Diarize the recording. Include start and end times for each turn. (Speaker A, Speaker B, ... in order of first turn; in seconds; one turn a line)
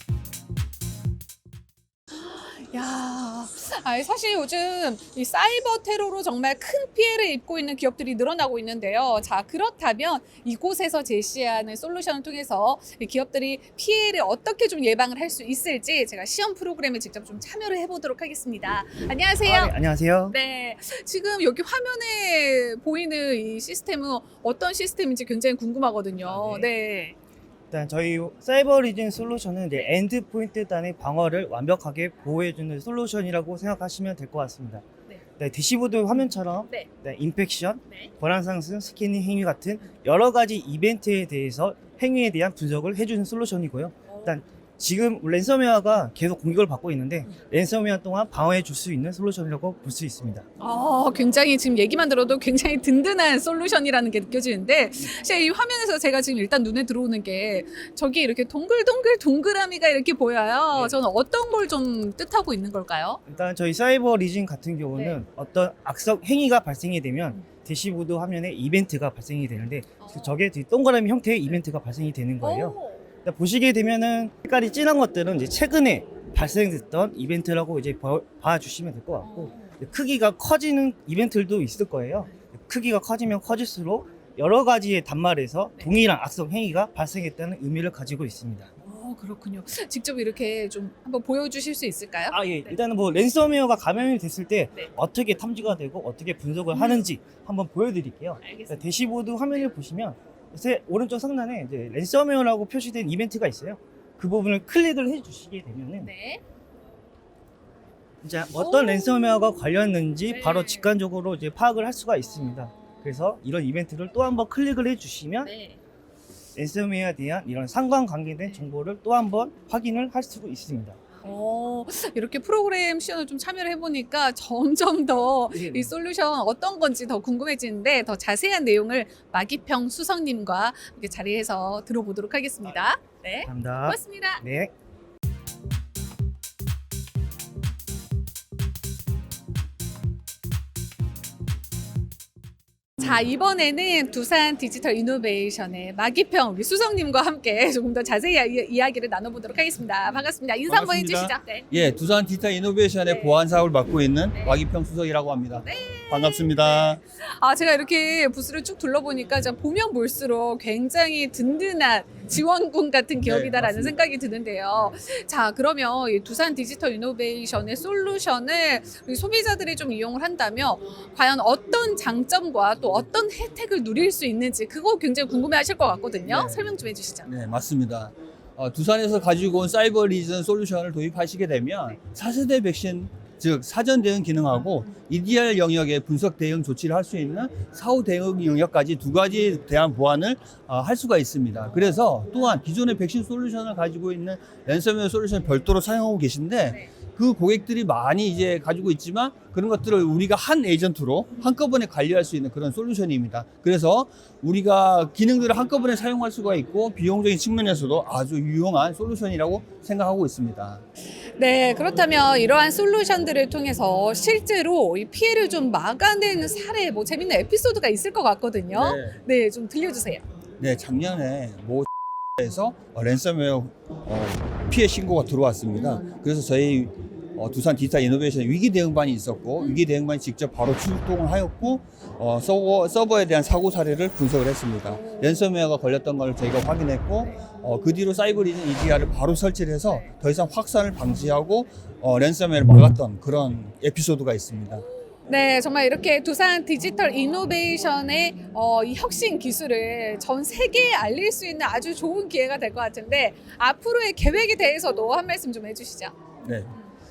Speaker A: 2.3-19.8
Speaker B: 19.4-20.4
Speaker A: 20.3-27.2
Speaker B: 26.2-26.7
Speaker B: 27.7-34.9
Speaker B: 35.4-50.5
Speaker A: 44.1-44.4
Speaker A: 50.6-63.2
Speaker B: 60.7-61.0
Speaker B: 63.3-88.7
Speaker A: 70.0-70.4
Speaker A: 72.4-73.0
Speaker A: 79.2-79.8
Speaker A: 88.8-92.8
Speaker B: 92.3-106.1
Speaker A: 96.7-97.1
Speaker A: 98.4-98.9
Speaker A: 106.0-106.4
Speaker B: 108.2-115.5
Speaker A: 108.5-109.6
Speaker A: 110.3-111.0
Speaker A: 112.2-113.3
Speaker A: 115.4-115.8
Speaker B: 116.6-121.0
Speaker A: 121.2-134.4
Speaker B: 125.5-125.9
Speaker B: 133.5-134.7
Speaker A: 143.0-151.7
Speaker C: 150.7-157.0
Speaker A: 153.1-153.4
Speaker A: 154.3-154.6
Speaker A: 155.6-177.3
Speaker C: 163.2-164.0
Speaker C: 176.3-210.8
Speaker A: 211.4-220.2
Speaker C: 218.7-219.2
Speaker C: 220.6-221.9
Speaker C: 222.4-244.8
Speaker A: 234.9-235.4
Speaker A: 245.3-256.1
Speaker C: 256.4-256.7